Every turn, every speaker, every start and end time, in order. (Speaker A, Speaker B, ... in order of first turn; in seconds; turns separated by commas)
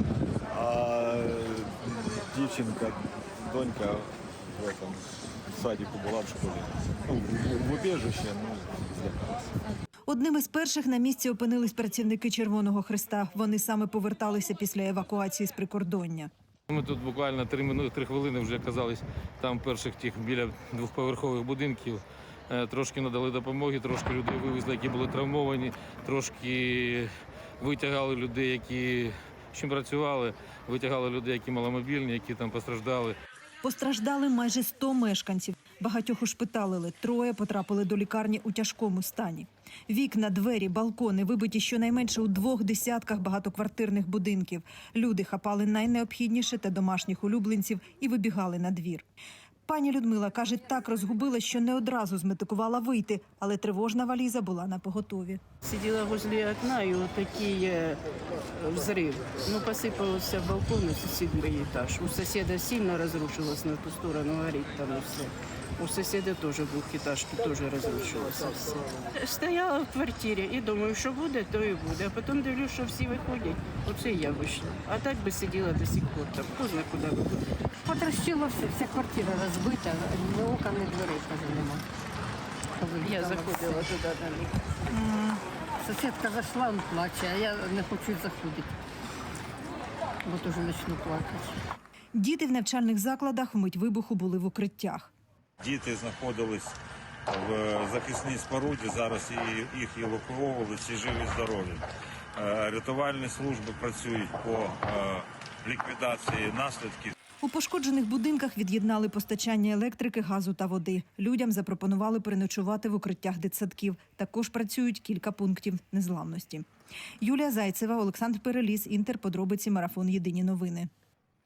Speaker A: 0.5-9.4, Speaker B: 10.1-16.3, Speaker C: 16.7-33.2, Speaker B: 33.6-49.0, Speaker B: 49.7-55.4, Speaker D: 55.6-77.6, Speaker E: 77.8-81.8, Speaker E: 82.8-83.8, Speaker D: 83.1-84.5, Speaker B: 84.9-85.4, Speaker E: 85.8-88.7, Speaker E: 90.2-91.6, Speaker B: 92.2-95.1, Speaker F: 95.6-96.8, Speaker F: 97.3-101.8, Speaker F: 102.4-107.1, Speaker B: 107.4-116.7, Speaker B: 117.2-120.9